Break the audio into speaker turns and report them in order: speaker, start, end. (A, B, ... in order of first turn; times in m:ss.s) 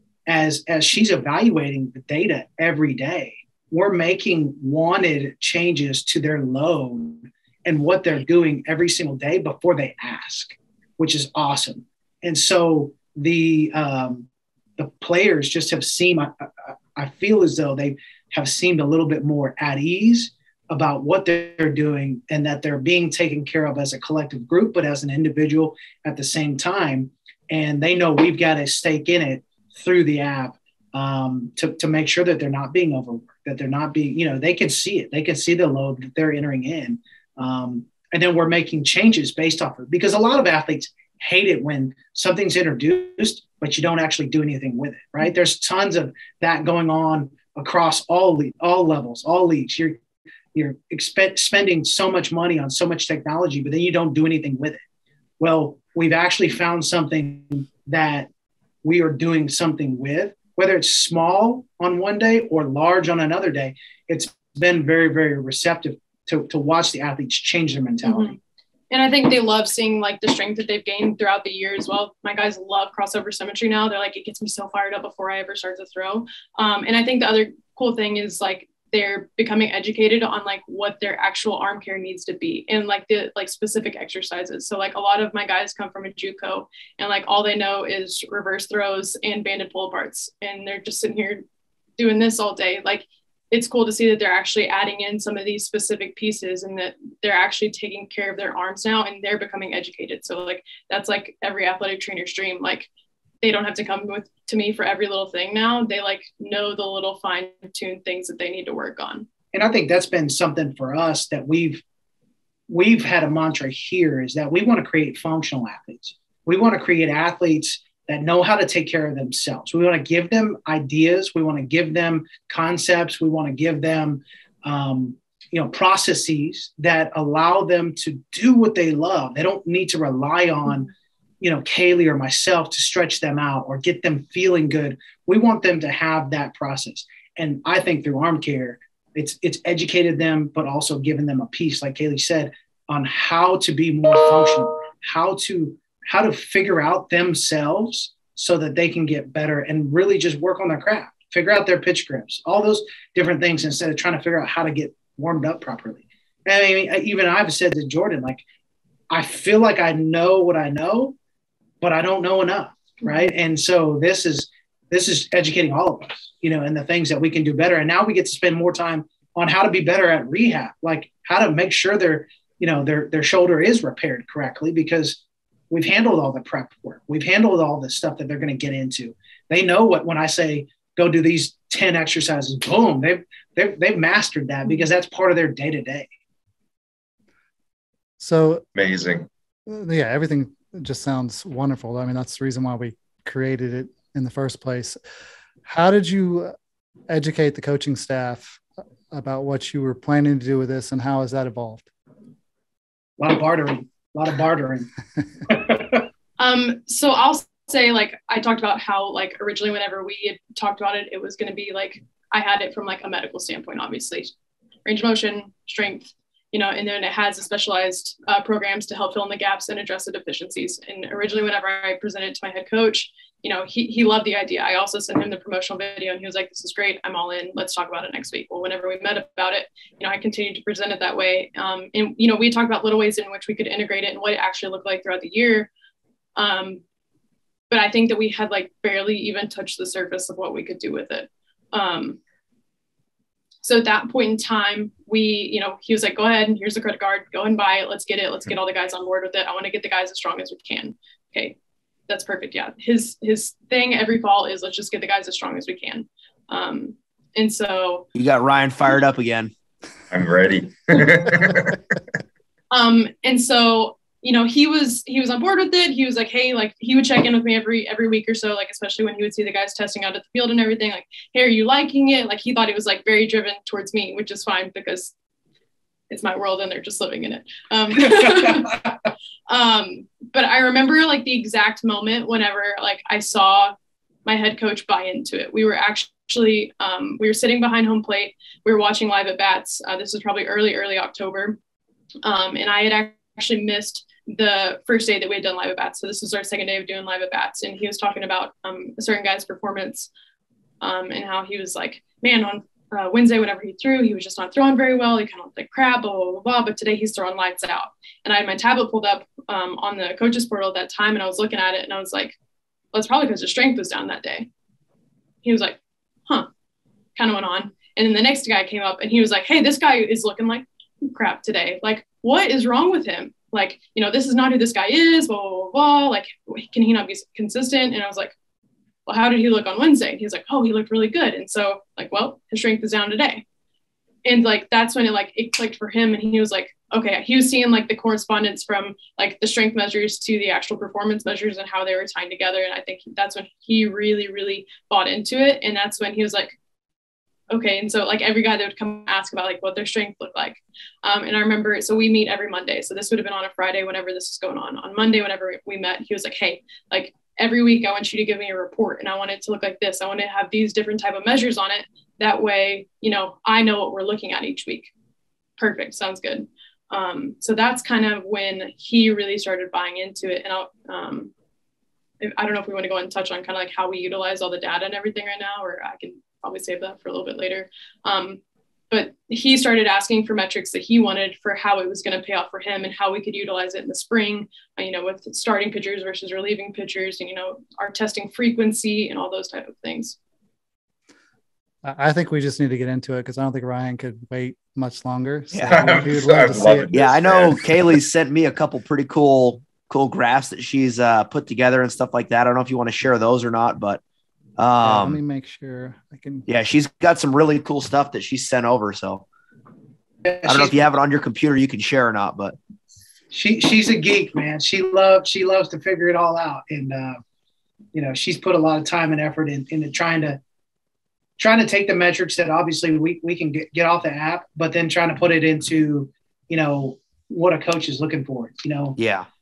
0:00.3-0:50.0 A
0:50.5-0:54.8 A
0:55.4-0:58.3 A
0:58.8-1:08.4 A
1:08.0-1:08.4 B
1:08.9-1:31.4 B
1:32.0-1:42.9 B
1:43.4-1:49.3 B
1:49.5-1:51.8 A
1:52.7-2:10.9 A
2:11.4-2:38.4 A
2:39.1-2:41.2 A
2:41.8-3:06.1 A
3:08.2-3:08.6 C
3:08.7-3:09.3 D
3:09.7-3:15.0 C
3:15.7-3:16.6 C
3:17.1-3:21.9 C
3:23.2-3:24.9 A
3:25.5-3:26.0 A
3:26.4-3:34.3 B
3:34.8-3:55.7 B
3:56.4-3:56.8 B
3:57.7-4:02.2 B
4:03.6-4:11.6 B
4:12.1-4:18.0 B
4:18.2-4:19.5 E
4:20.1-4:21.8 D
4:22.7-4:35.1 B
4:36.1-4:38.9 B
4:39.5-4:51.6 B
4:52.2-5:00.1 B
5:00.8-5:12.4 B
5:12.9-5:14.5 B
5:15.4-5:16.5 B
5:17.2-5:28.3 B
5:29.1-5:33.4 B
5:34.2-5:46.6 B
5:47.5-6:04.9 B
6:05.6-6:11.3 B
6:12.2-6:18.4 B
6:18.9-6:30.2 B
6:31.8-6:36.9 C
6:35.5-6:35.9 E
6:35.7-6:38.0 D
6:36.9-6:44.0 E
6:44.6-6:45.2 E
6:44.8-6:46.5 C
6:46.5-6:49.3 E
6:50.2-6:50.8 A
6:50.4-6:52.6 E
6:53.3-6:57.2 A
6:57.9-7:00.4 A
7:01.4-7:09.0 A
7:09.0-7:09.3 E